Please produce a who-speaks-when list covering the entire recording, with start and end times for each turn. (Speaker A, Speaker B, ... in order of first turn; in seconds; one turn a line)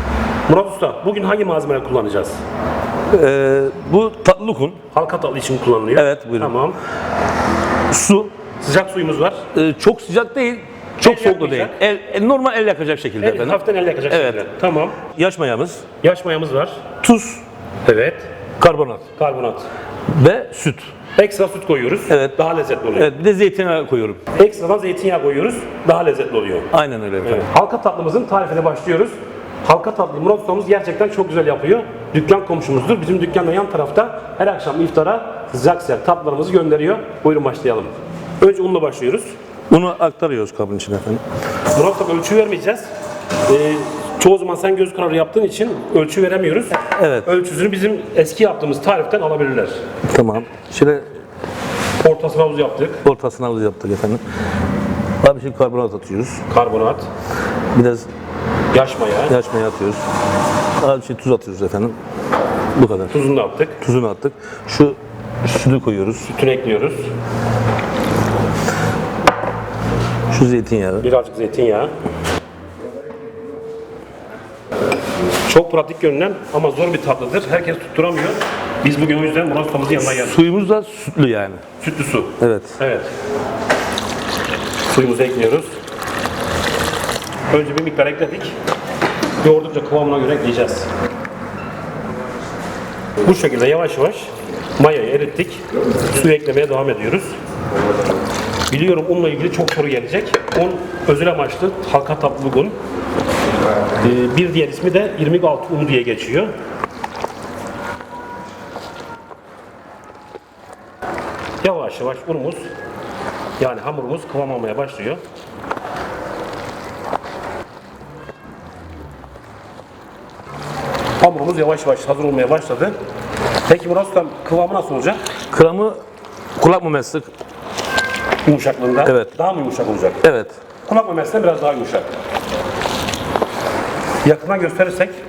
Speaker A: 0.5-2.4
Speaker B: 3.1-4.8
Speaker A: 4.9-6.8
Speaker B: 5.9-6.5
Speaker B: 7.9-8.3
Speaker A: 8.6-9.4
Speaker B: 9.5-14.5
Speaker A: 11.0-11.8
Speaker A: 13.2-15.0
Speaker B: 15.1-15.8
Speaker A: 16.0-16.8
Speaker B: 17.0-17.4
Speaker A: 17.8-18.3
Speaker B: 18.6-19.0
Speaker A: 19.1-19.6
Speaker B: 20.1-20.9
Speaker A: 21.1-23.1
Speaker B: 22.1-22.3
Speaker B: 22.9-24.2
Speaker A: 24.3-26.7
Speaker B: 26.7-27.4
Speaker A: 27.2-39.3
Speaker B: 39.7-41.2
Speaker A: 41.7-42.9
Speaker A: 43.5-49.8
Speaker B: 46.9-47.3
Speaker B: 50.1-51.0
Speaker A: 52.0-53.0
Speaker B: 53.0-54.2
Speaker B: 55.2-56.4
Speaker A: 56.5-57.0
Speaker B: 57.7-58.1
Speaker A: 58.7-59.3
Speaker B: 59.3-60.0
Speaker B: 60.8-62.0
Speaker B: 62.7-63.1
Speaker A: 63.1-63.8
Speaker B: 63.8-66.3
Speaker A: 66.3-67.1
Speaker B: 70.3-71.1
Speaker A: 71.0-71.9
Speaker A: 75.5-80.4
Speaker B: 80.0-81.6
Speaker A: 81.8-83.1
Speaker B: 82.4-82.8
Speaker A: 84.9-85.7
Speaker A: 87.5-88.5
Speaker A: 89.4-90.9
Speaker A: 93.2-97.4
Speaker A: 98.7-102.8
Speaker A: 104.0-106.5
Speaker A: 111.6-112.6
Speaker A: 113.6-115.2
Speaker A: 121.2-122.9
Speaker A: 123.7-125.2
Speaker B: 125.5-126.0
Speaker B: 126.6-127.3
Speaker A: 128.4-130.2
Speaker B: 129.0-129.3
Speaker B: 130.2-130.5
Speaker A: 130.8-132.1
Speaker A: 134.2-135.1